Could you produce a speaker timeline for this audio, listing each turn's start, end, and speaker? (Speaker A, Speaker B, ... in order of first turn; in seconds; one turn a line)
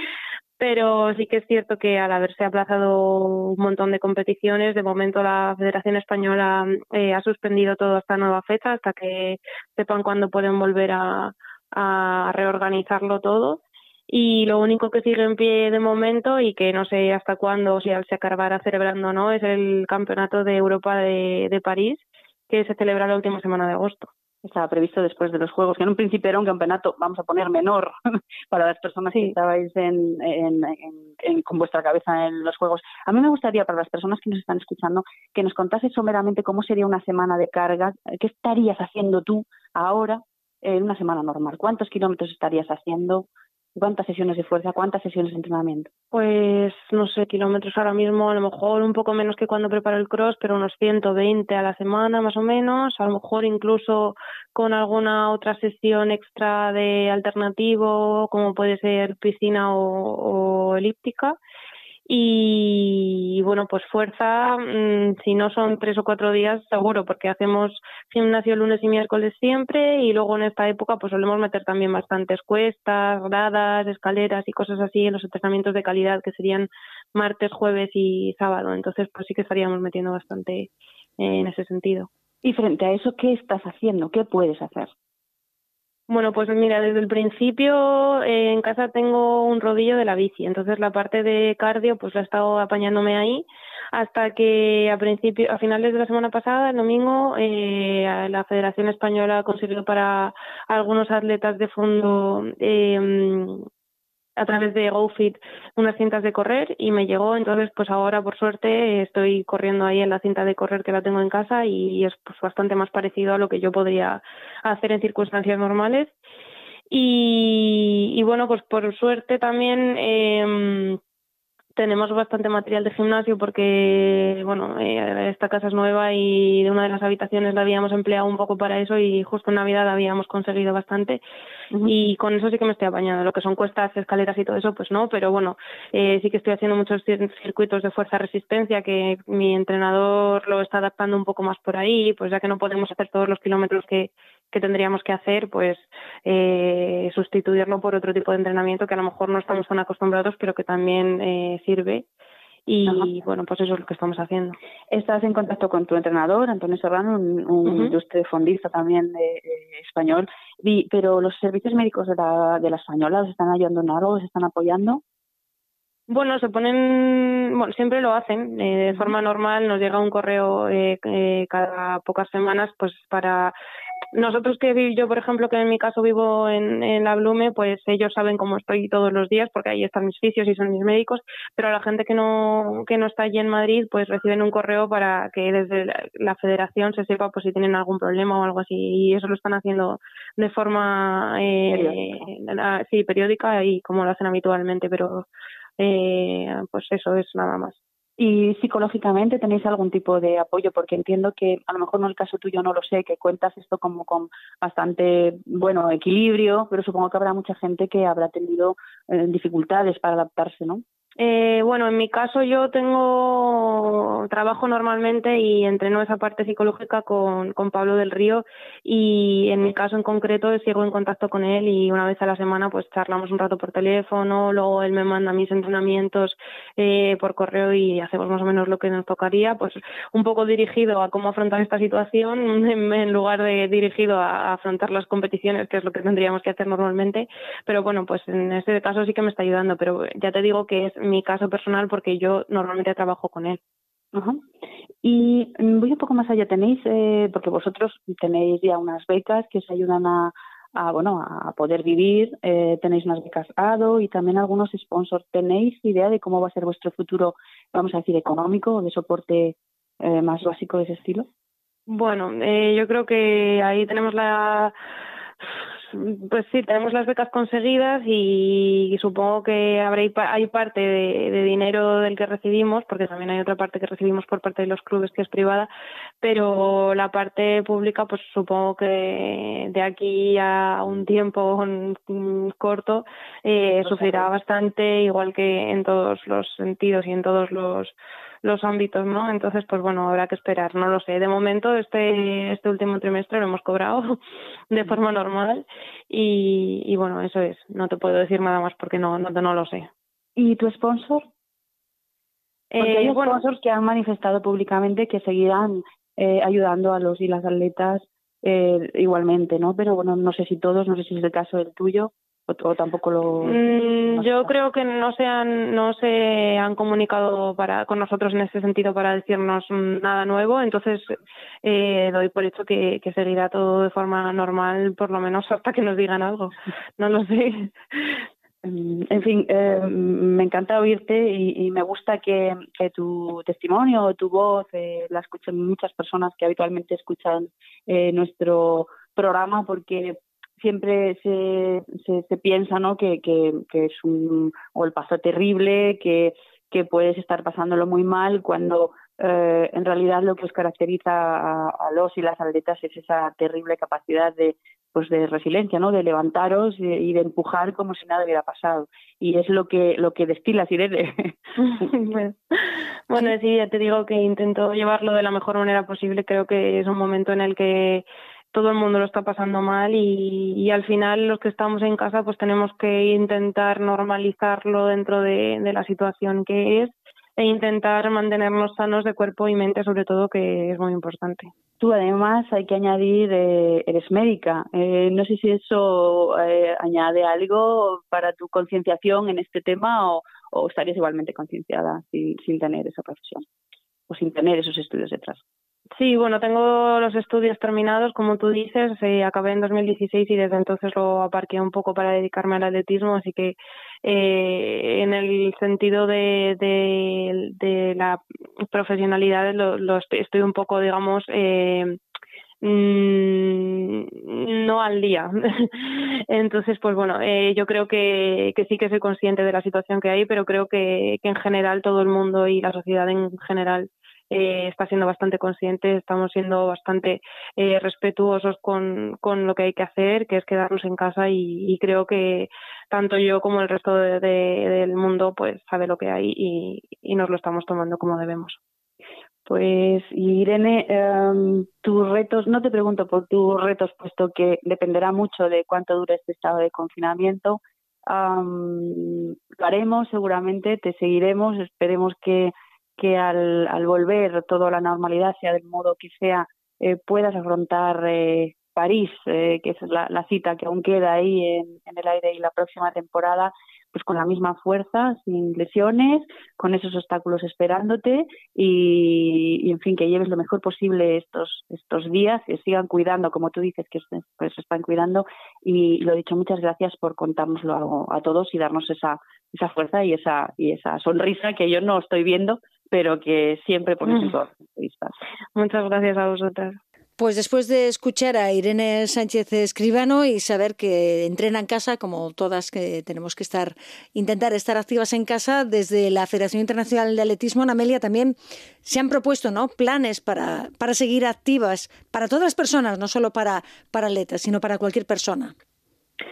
Speaker A: 0.6-24.1
Speaker B: 24.4-27.9
Speaker B: 28.5-45.9
Speaker A: 46.1-61.4
Speaker A: 62.1-82.1
Speaker B: 82.4-84.9
Speaker A: 86.1-103.7
Speaker A: 104.4-116.1
Speaker A: 116.9-121.0
Speaker A: 121.8-131.2
Speaker A: 131.8-152.0
Speaker A: 152.7-154.6
Speaker B: 154.9-165.0
Speaker A: 157.6-157.9
Speaker A: 166.1-173.5
Speaker A: 174.1-195.2
Speaker B: 191.7-192.2
Speaker A: 195.8-197.8
Speaker B: 198.2-210.8
Speaker A: 211.2-243.6
Speaker B: 244.1-244.4
Speaker B: 245.0-261.3
Speaker A: 261.9-264.7
Speaker A: 265.9-275.7
Speaker A: 276.2-294.2
Speaker B: 283.8-284.3
Speaker A: 294.7-299.9
Speaker B: 300.4-301.3
Speaker A: 302.7-303.4
Speaker B: 302.8-314.5
Speaker A: 313.4-327.7
Speaker B: 328.6-361.8
Speaker A: 361.6-381.5
Speaker B: 381.8-393.4
Speaker B: 394.1-395.4
Speaker A: 395.9-412.0
Speaker A: 412.6-438.6
Speaker B: 439.5-485.1
Speaker A: 484.1-484.4
Speaker A: 485.6-486.8
Speaker C: 487.2-505.5